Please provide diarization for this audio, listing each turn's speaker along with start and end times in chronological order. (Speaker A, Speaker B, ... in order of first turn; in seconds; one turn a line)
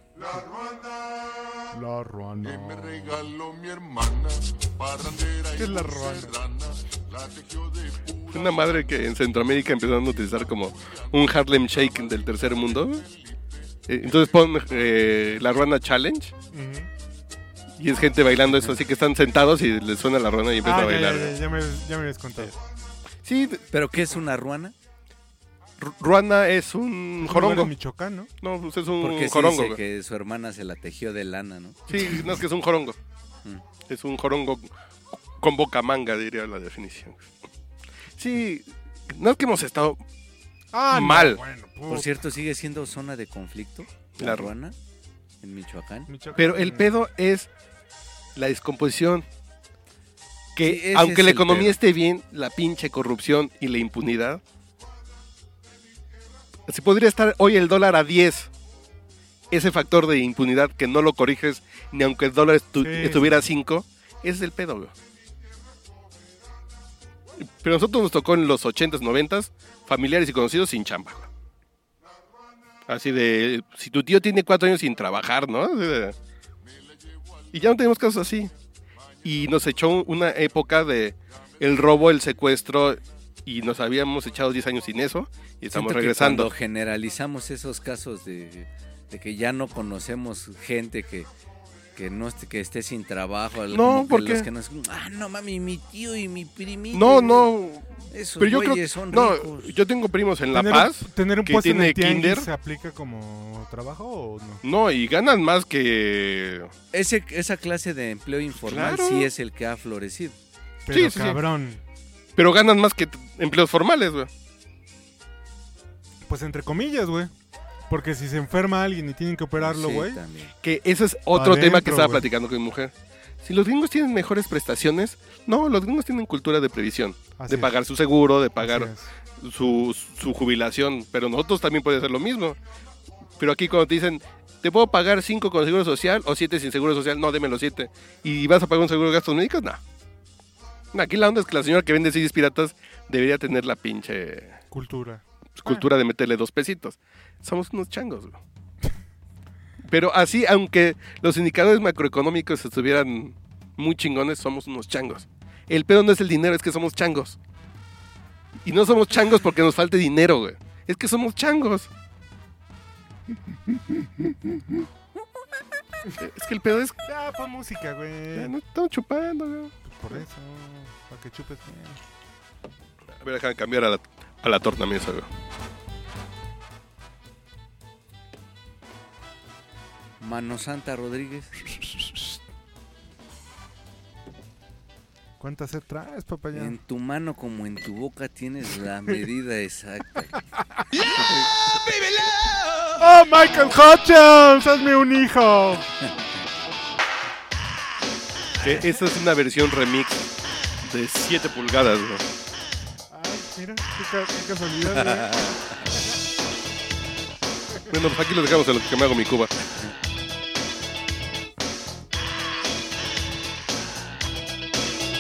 Speaker A: 1.7-3.1
Speaker B: 2.4-9.0
Speaker A: 5.6-6.4
Speaker C: 8.3-13.1
Speaker B: 11.9-12.4
Speaker C: 13.9-16.3
Speaker A: 16.5-16.9
Speaker C: 17.8-21.4
Speaker A: 20.6-22.5
Speaker C: 23.2-23.6
Speaker D: 23.7-24.7
Speaker C: 25.8-27.7
Speaker A: 27.2-28.3
Speaker C: 28.4-29.8
Speaker D: 29.0-32.1
Speaker C: 31.9-33.0
Speaker C: 33.9-37.3
Speaker C: 38.2-40.0
Speaker A: 40.7-42.2
Speaker C: 40.9-41.4
Speaker D: 41.9-44.8
Speaker C: 44.2-44.5
Speaker D: 45.4-46.1
Speaker A: 46.1-47.0
Speaker C: 46.4-47.5
Speaker C: 48.4-49.3
Speaker C: 50.5-54.4
Speaker D: 50.6-51.8
Speaker C: 56.7-58.5
Speaker C: 59.5-64.9
Speaker A: 62.8-63.5
Speaker C: 67.4-71.3
Speaker C: 72.9-76.2
Speaker C: 77.5-78.5
Speaker C: 79.2-86.5
Speaker D: 85.7-91.3
Speaker D: 92.0-97.5
Speaker C: 93.7-94.5
Speaker C: 96.9-102.5
Speaker D: 98.1-99.7
Speaker A: 100.5-104.6
Speaker C: 104.6-106.7
Speaker D: 106.9-110.4
Speaker C: 108.6-109.3
Speaker A: 110.9-111.8
Speaker C: 110.9-111.4
Speaker C: 112.4-114.3
Speaker A: 116.3-117.3
Speaker A: 117.9-120.2
Speaker D: 119.6-120.5
Speaker C: 120.6-132.6
Speaker A: 121.3-122.3
Speaker A: 127.4-127.7
Speaker A: 128.6-129.1
Speaker C: 133.4-139.8
Speaker C: 140.9-144.6
Speaker A: 144.7-145.8
Speaker C: 145.6-148.4
Speaker C: 149.9-157.4
Speaker C: 158.7-161.9
Speaker A: 163.9-164.3
Speaker C: 166.2-167.0
Speaker A: 167.1-168.5
Speaker C: 168.3-169.8
Speaker A: 169.9-172.0
Speaker C: 173.2-175.3
Speaker D: 180.2-181.7
Speaker A: 185.4-186.8
Speaker D: 186.5-190.4
Speaker D: 191.0-193.1
Speaker A: 193.0-195.9
Speaker C: 198.6-200.3
Speaker C: 200.8-202.2
Speaker A: 203.1-206.0
Speaker D: 205.2-205.6
Speaker C: 207.9-209.5